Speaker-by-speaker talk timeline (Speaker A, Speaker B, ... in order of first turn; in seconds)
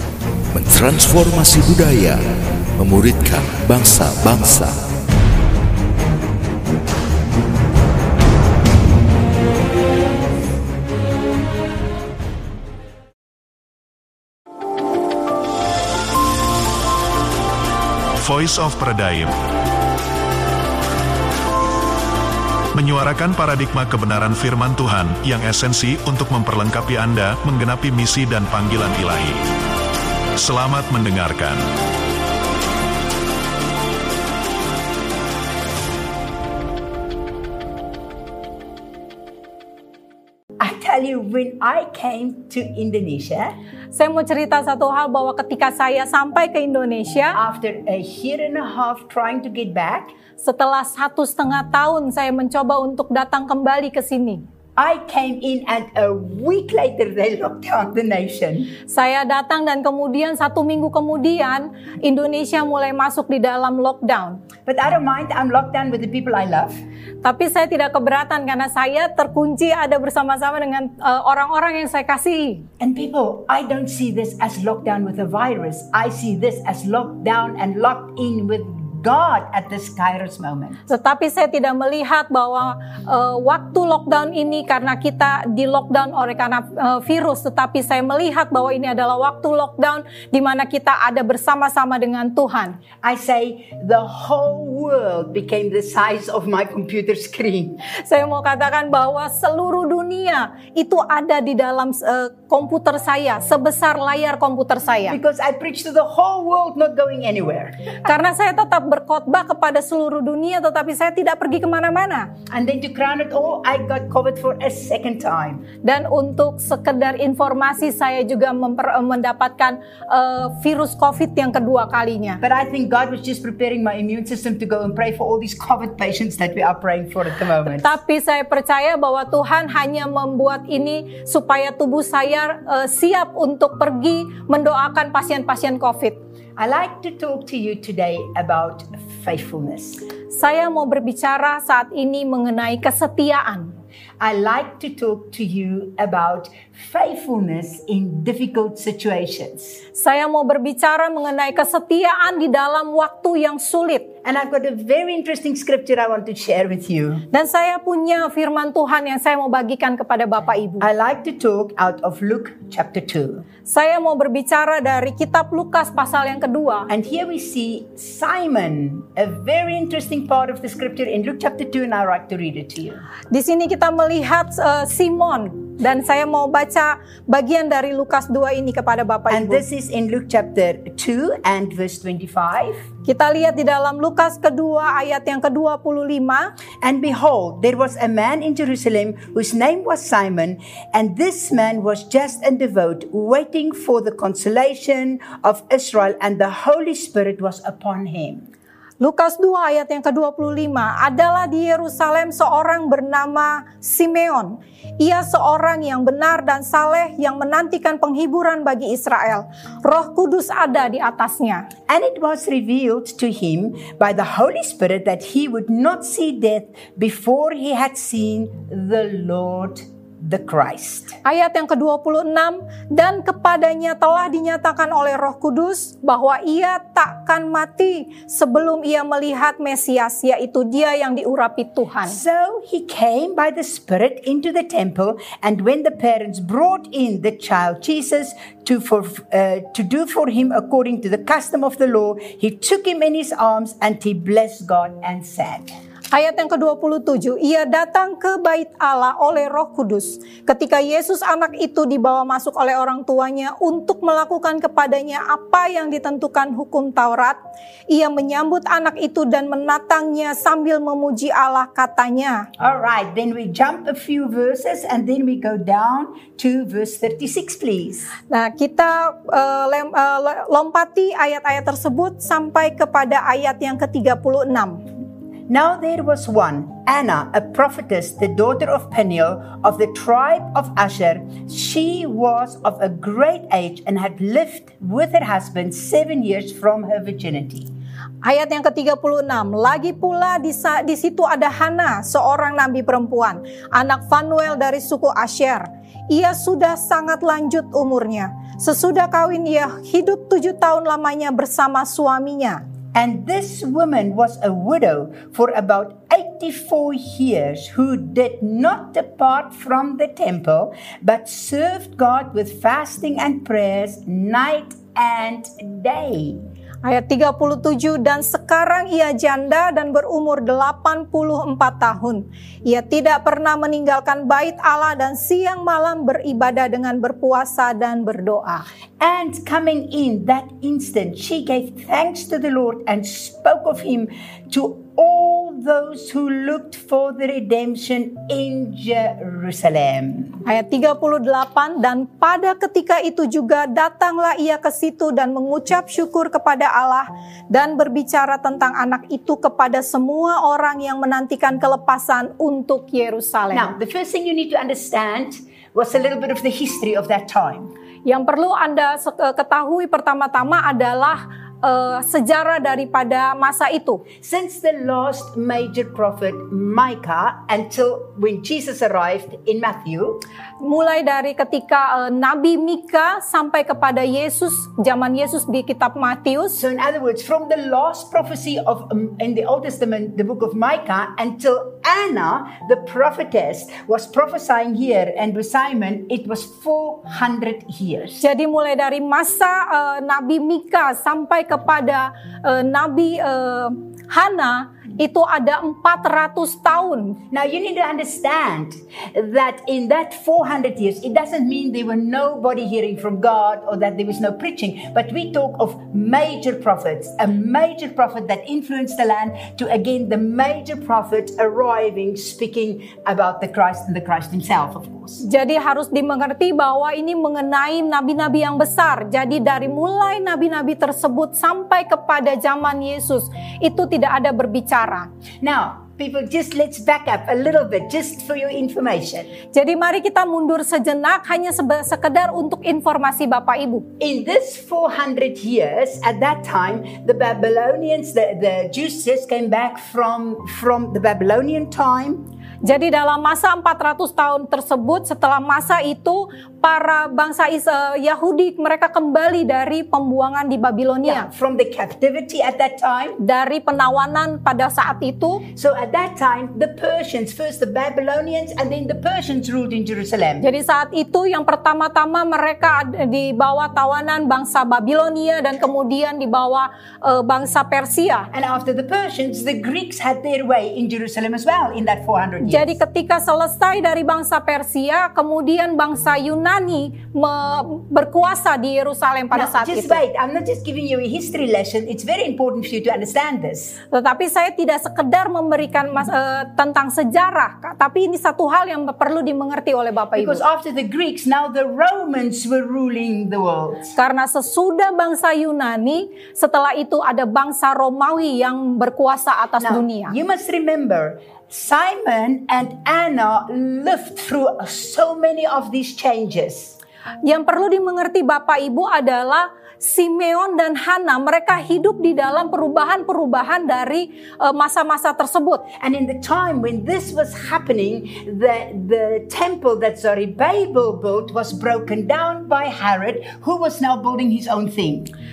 Speaker A: 0.5-2.2, 2.8-4.8
Speaker B: 18.2-19.4, 22.7-29.5, 30.4-31.6
Speaker C: 40.6-43.5, 47.3-50.1, 54.8-58.7, 64.7-66.8, 72.8-80.8, 93.0-97.8, 105.1-107.8, 112.5-115.7, 122.4-128.0, 136.6-140.0, 144.2-149.8, 154.2-157.3, 160.8-163.4, 166.9-173.1, 179.3-182.8, 186.8-198.5, 211.9-221.2, 232.1-245.8, 262.6-268.1, 275.5-287.7, 302.9-316.5, 329.0-340.4, 353.5-357.7, 364.2-370.2, 376.5-388.2, 397.3-415.2, 425.4-429.3, 434.0-442.3, 451.0-453.2, 455.5-460.5, 468.3-472.8, 479.3-483.8, 490.1-493.9, 499.6-506.8, 515.7-525.1
Speaker D: 43.9-47.4, 50.4-54.4, 58.9-64.4, 67.2-72.7, 80.9-92.8, 98.0-105.2, 108.1-112.3, 115.8-122.4, 127.7-136.2, 140.3-143.7, 149.9-154.1, 157.3-160.9, 163.7-166.9, 173.3-179.6, 183.1-186.5, 199.0-211.7, 221.2-232.2, 246.1-257.4, 257.9-262.5, 268.3-274.8, 288.2-302.6, 316.9-328.7, 340.4-353.7, 358.1-364.1, 370.6-376.6, 388.2-397.2, 415.2-425.1, 429.5-433.9, 442.6-451.3, 453.2-455.4, 460.4-468.3, 472.4-480.0, 483.9-490.4, 493.9-500.1, 507.2-515.7